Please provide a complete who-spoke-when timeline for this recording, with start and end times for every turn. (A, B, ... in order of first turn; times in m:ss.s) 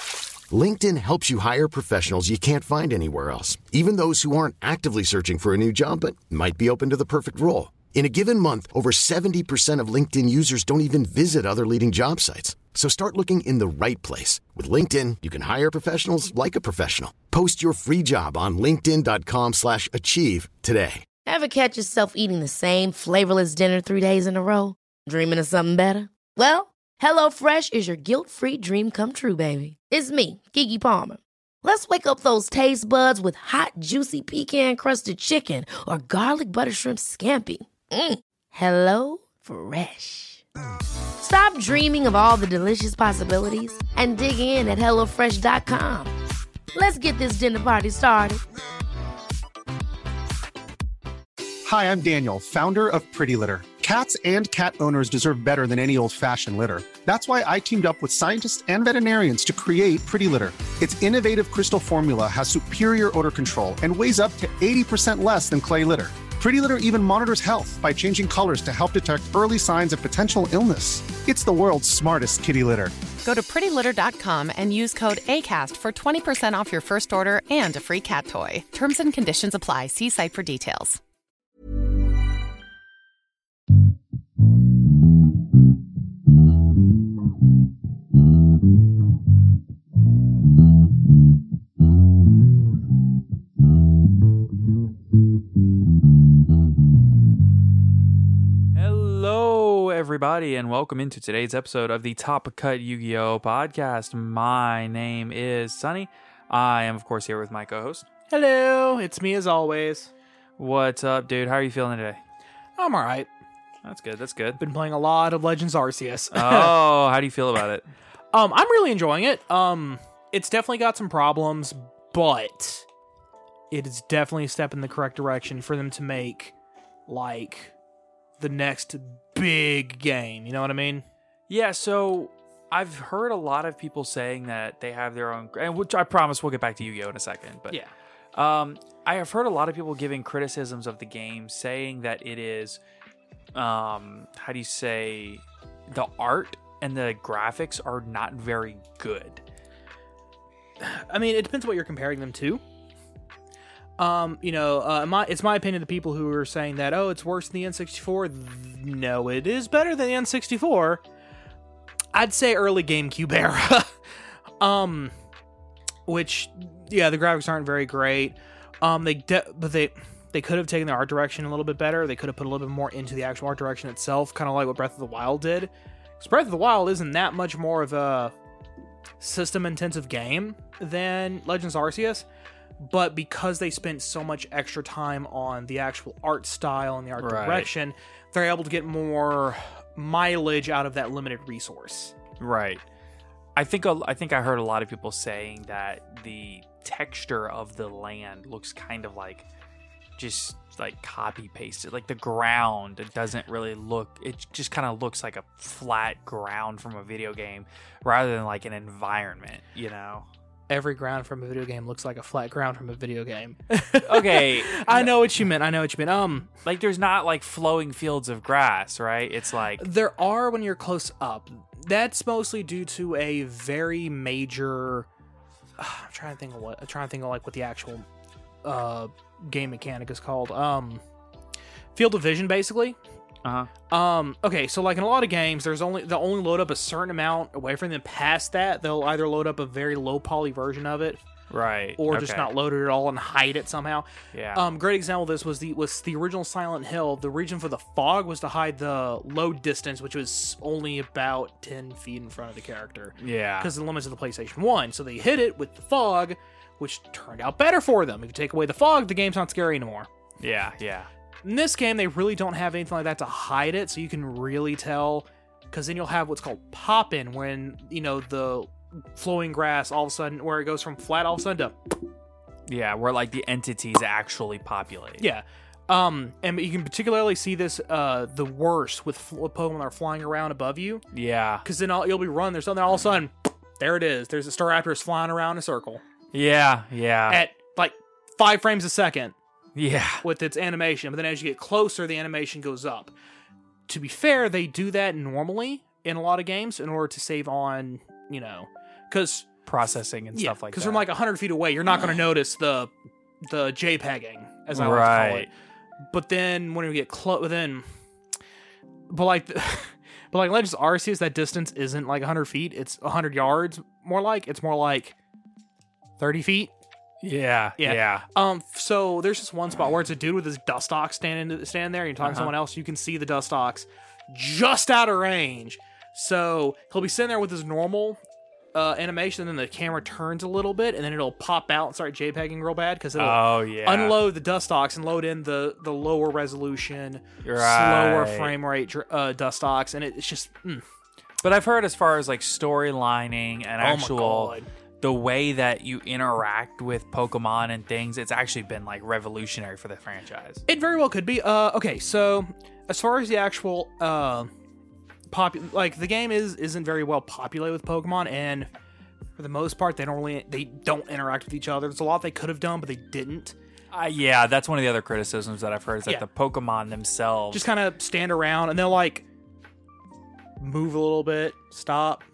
0:00.5-0:21.0 A
0:21.3-0:40.4 B
0:41.2-0:46.1 B
0:46.8-0:48.4 B
0:51.6-1:13.0 C
1:13.2-1:21.0 D
1:38.7-1:48.1 E
1:48.3-1:50.1 F
1:50.6-1:52.2 E
1:52.8-1:53.3 F
1:53.8-1:54.6 E
1:54.6-1:56.8 F
1:56.3-1:57.9 E
1:58.3-2:02.8 F
2:03.7-2:06.5 F
2:07.1-2:07.7 F
2:08.4-2:11.1 F
2:11.5-2:17.8 E
2:18.4-2:22.8 E
2:23.6-2:29.4 E
2:30.8-2:32.6 F
2:34.0-2:41.0 F
2:42.1-2:43.9 F
2:44.6-2:45.1 F
2:46.1-2:58.3 F
2:59.2-3:02.2 F
3:02.8-3:12.2 F
3:07.2-3:07.7 E
3:12.4-3:12.8 E
3:13.6-3:19.5 E
3:20.2-3:30.3 E
3:30.7-3:36.5 F
3:34.0-3:35.2 E
3:36.6-3:39.9 E
3:39.8-3:45.1 F
3:45.8-3:48.1 F
3:48.6-3:51.0 F
3:52.0-3:53.0 F
3:53.4-3:53.7 E
3:53.9-4:01.2 F
4:01.5-4:02.5 E
4:02.0-4:20.1 F
4:04.3-4:04.7 E
4:13.2-4:13.7 E
4:20.4-4:21.1 E
4:21.4-4:31.8 F
4:32.7-4:35.3 E
4:35.2-4:41.0 F
4:41.1-4:41.6 E
4:41.6-4:46.0 F
4:46.3-4:47.4 E
4:47.3-4:49.4 F
4:49.8-4:50.2 E
4:50.2-4:53.1 F
4:53.9-4:59.5 F
4:59.7-5:01.1 E
5:00.4-5:02.9 F
5:03.4-5:05.5 F
5:04.7-5:05.5 E
5:06.1-5:07.9 F
5:09.1-5:15.2 F
5:16.2-5:16.7 F
5:17.2-5:18.3 E
5:17.8-5:28.2 F
5:22.2-5:22.5 E
5:28.7-5:40.8 F
5:33.2-5:34.3 E
5:37.4-5:38.6 E
5:41.4-5:50.6 E
5:43.8-5:44.7 F
5:50.7-5:54.5 F
5:55.3-5:58.7 F
5:59.4-6:03.6 F
6:03.9-6:07.7 E
6:07.5-6:09.2 F
6:10.6-6:12.2 F